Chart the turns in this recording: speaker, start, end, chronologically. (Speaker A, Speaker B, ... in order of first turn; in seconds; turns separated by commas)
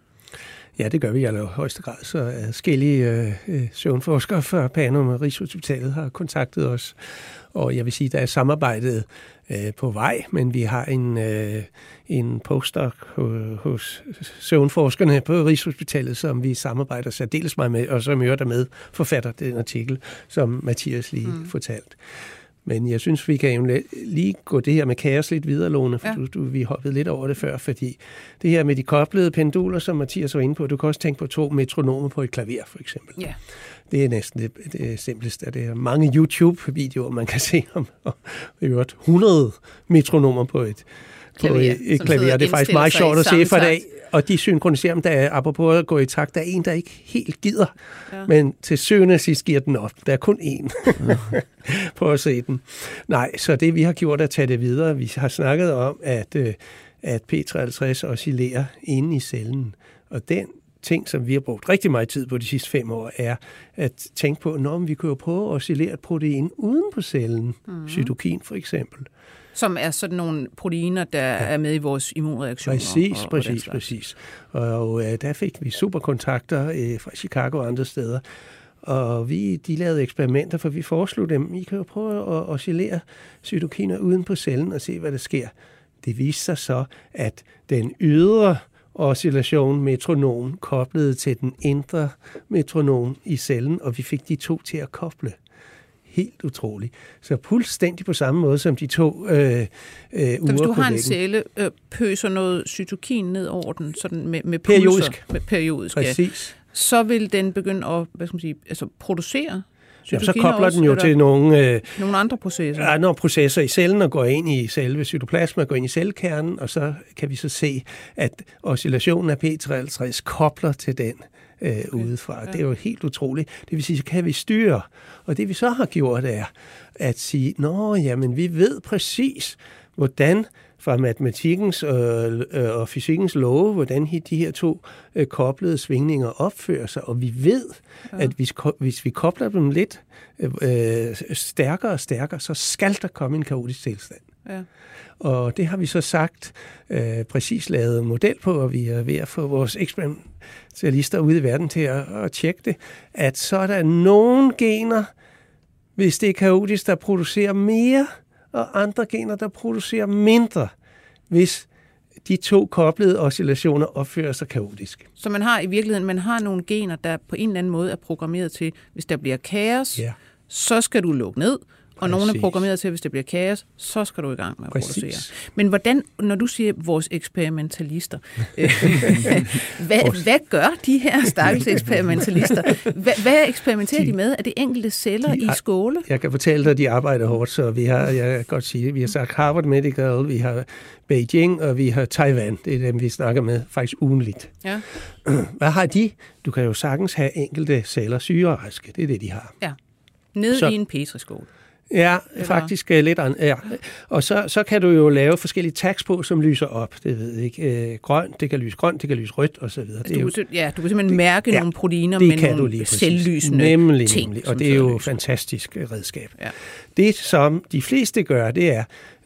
Speaker A: 0.8-7.0, Speaker A: 7.5-22.0, Speaker A: 22.6-33.2, Speaker A: 33.9-69.1, Speaker B: 41.4-43.8, Speaker B: 67.7-68.1, Speaker B: 69.5-73.8, Speaker A: 72.7-78.2, Speaker A: 78.8-95.4, Speaker A: 96.1-101.2, Speaker B: 100.5-111.1, Speaker A: 104.6-105.2, Speaker A: 105.9-106.5, Speaker A: 110.1-112.0, Speaker B: 112.0-112.9, Speaker A: 112.7-144.3, Speaker B: 121.9-122.5, Speaker A: 145.2-155.1, Speaker A: 156.0-160.7, Speaker A: 161.3-161.7, Speaker A: 162.2-165.1, Speaker B: 165.2-186.1, Speaker A: 172.0-172.6, Speaker A: 174.7-175.3, Speaker A: 185.2-194.6, Speaker A: 195.2-199.5, Speaker B: 200.3-201.5, Speaker A: 201.9-210.3, Speaker B: 202.4-202.7, Speaker B: 210.0-215.1, Speaker A: 211.1-216.4, Speaker A: 216.9-218.9